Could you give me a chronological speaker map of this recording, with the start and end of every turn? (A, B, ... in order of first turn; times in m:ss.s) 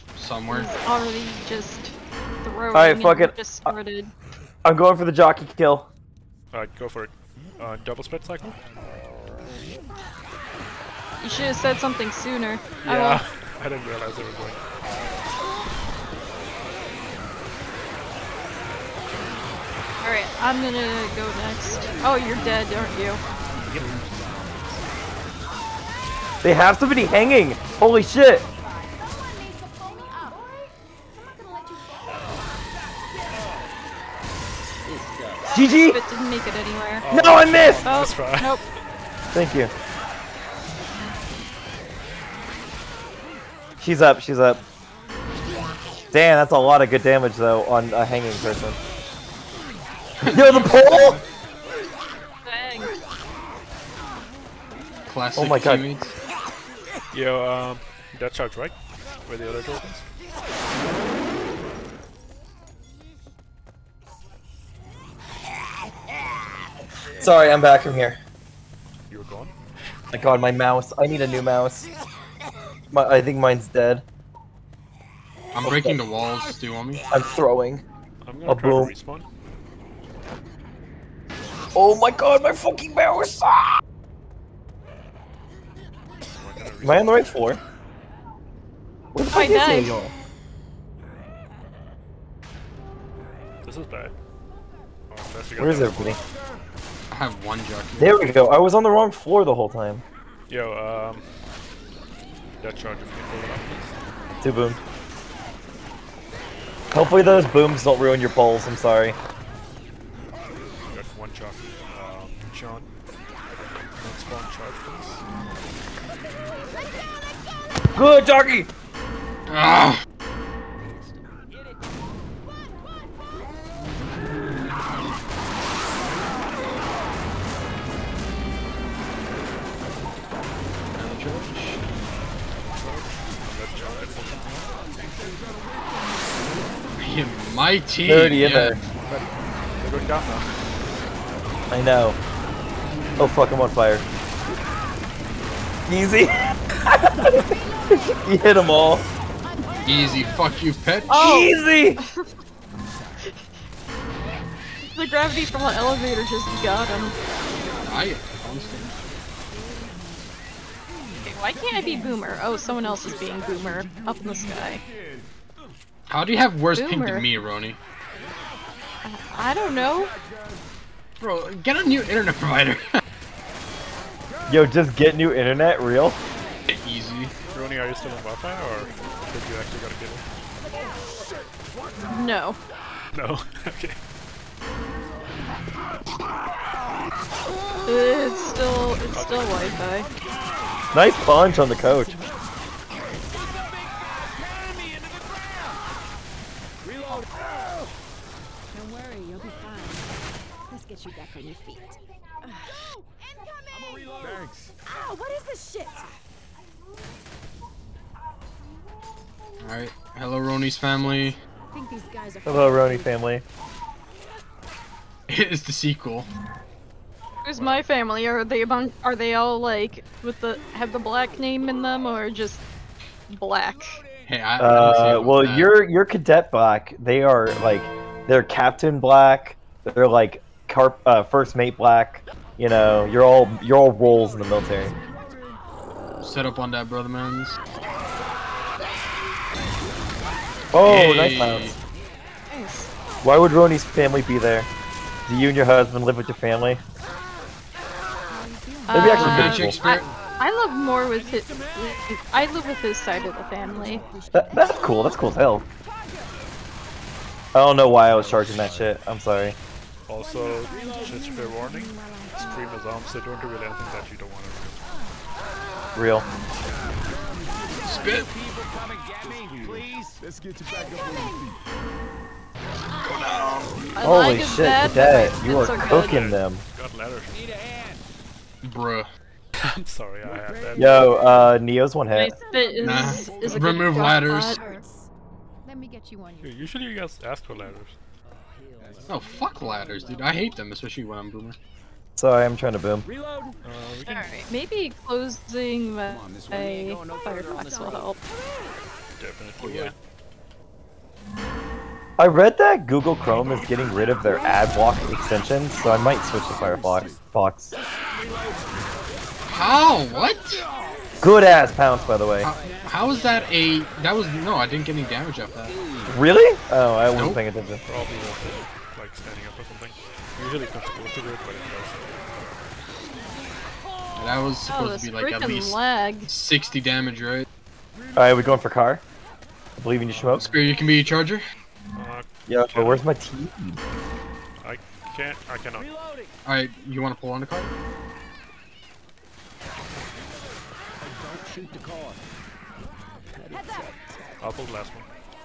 0:00.2-0:00.7 A
0:00.5-0:04.1 B
0:02.7-0:03.7 C
0:04.6-0:05.9 C
0:06.5-0:08.6 D
0:11.2-0:13.2 B
0:12.8-0:14.6 D
0:20.0-0:23.2 B
0:23.7-0:24.4 D
0:26.4-0:28.4 C
0:28.9-0:32.4 E
0:34.8-0:35.5 F
0:35.5-0:37.0 B
0:35.5-0:36.0 C
0:37.0-0:38.6 D
0:37.1-0:37.8 C
0:37.8-0:38.6 B
0:39.3-0:39.7 C
0:43.8-0:44.6 C
0:46.1-0:48.8 C
0:50.2-0:51.2 A
0:50.3-0:51.2 C
0:52.4-0:52.9 B
0:55.1-0:56.1 A
0:55.4-0:55.8 C
0:57.1-1:00.0 D
1:07.2-1:08.2 C
1:09.1-1:09.5 D
1:10.1-1:11.9 C
1:12.9-1:14.0 C
1:15.5-1:17.0 A
1:15.6-1:16.0 C
1:17.1-1:17.8 C
1:18.2-1:19.2 D
1:18.4-1:18.9 C
1:21.7-1:23.8 C
1:26.3-1:27.2 D
1:26.8-1:27.6 C
1:29.1-1:30.1 C
1:29.3-1:30.0 B
1:33.6-1:34.1 D
1:35.1-1:36.2 D
1:35.6-1:36.2 C
1:37.1-1:38.4 A
1:38.0-1:40.0 C
1:40.5-1:41.2 D
1:42.6-1:43.9 D
1:44.4-1:44.8 C
1:46.9-1:49.2 C
1:50.9-1:52.9 D
1:54.0-1:55.2 D
1:57.9-1:58.7 C
1:59.5-2:00.0 A
2:00.8-2:01.6 F
2:10.9-2:11.8 A
2:12.6-2:14.7 D
2:17.0-2:18.8 A
2:18.0-2:18.8 C
2:19.1-2:20.5 D
2:21.7-2:22.2 C
2:23.2-2:24.0 C
2:25.9-2:27.6 C
2:28.1-2:29.0 C
2:29.8-2:31.3 A
2:31.1-2:32.0 B
2:31.1-2:32.0 C
2:34.9-2:37.1 B
2:37.8-2:38.9 A
2:39.5-2:40.3 E
2:41.2-2:44.8 B
2:46.1-2:47.8 A
2:46.8-2:47.2 B
2:49.0-2:50.1 B
2:51.2-2:53.0 A
2:54.5-2:56.2 C
2:56.7-2:57.3 A
2:57.5-3:00.2 D
3:02.1-3:02.6 B
3:03.1-3:04.0 D
3:07.9-3:10.1 B
3:09.1-3:09.8 D
3:10.9-3:12.1 C
3:13.8-3:14.6 F
3:16.8-3:17.3 F
3:18.7-3:20.1 E
3:20.7-3:26.0 E
3:23.7-3:24.7 F
3:29.6-3:31.4 A
3:31.7-3:33.2 E
3:32.4-3:33.4 C
3:35.3-3:36.3 A
3:37.4-3:42.6 B
3:37.6-3:37.8 D
3:43.3-3:44.0 B
3:44.3-3:45.8 A
3:44.6-3:54.9 C
3:54.3-3:54.6 F
3:54.7-3:55.1 E
3:56.2-3:57.6 A
4:00.7-4:01.7 C
4:00.8-4:01.8 A
4:02.5-4:02.9 B
4:03.2-4:04.7 C
4:05.3-4:06.8 C
4:08.3-4:09.6 E
4:08.9-4:14.0 B
4:08.9-4:09.8 C
4:08.9-4:10.1 A
4:10.1-4:10.3 F
4:13.6-4:15.3 F
4:13.8-4:15.3 E
4:14.3-4:15.6 C
4:17.5-4:19.5 C
4:18.0-4:19.0 F
4:20.1-4:24.8 D
4:20.2-4:22.8 E
4:20.6-4:21.1 F
4:24.9-4:25.2 E
4:25.9-4:26.2 C
4:27.8-4:28.3 A
4:27.8-4:30.2 F
4:29.2-4:29.9 D
4:30.7-4:31.5 E
4:33.0-4:33.6 E
4:33.4-4:33.8 F
4:34.0-4:36.2 B
4:34.0-4:36.6 C
4:35.9-4:37.4 D
4:37.3-4:38.0 F
4:38.6-4:39.1 A
4:39.6-4:41.2 D
4:40.8-4:42.3 C
4:42.1-4:44.8 B
4:42.4-4:45.1 E
4:42.8-4:44.6 A
4:45.6-4:46.6 E
4:46.4-4:47.9 D
4:48.3-4:50.4 F
4:49.1-4:51.6 A
4:52.2-4:53.0 C
4:53.0-4:53.6 F
4:53.6-4:54.3 D
4:54.0-4:58.2 B
4:56.0-4:58.2 F
4:58.2-4:58.8 E
4:59.2-4:59.9 D
4:59.6-4:59.9 A
5:02.2-5:07.7 C
5:06.5-5:07.2 F
5:08.1-5:08.6 F
5:09.5-5:10.6 A
5:11.2-5:12.5 C
5:12.4-5:15.8 A
5:12.5-5:13.5 F
5:15.7-5:16.1 F
5:16.1-5:17.8 C
5:17.1-5:17.4 A
5:17.8-5:22.0 D
5:24.2-5:27.5 A
5:24.7-5:26.3 B
5:28.2-5:29.0 C
5:29.8-5:30.5 C
5:30.1-5:30.5 D
5:30.4-5:31.4 A
5:32.0-5:33.0 D
5:32.5-5:33.8 C
5:34.6-5:35.9 D
5:35.8-5:36.3 F
5:36.4-5:37.7 A
5:41.0-5:42.2 F
5:43.3-5:44.2 F
5:43.5-5:44.4 E
5:44.4-5:45.1 D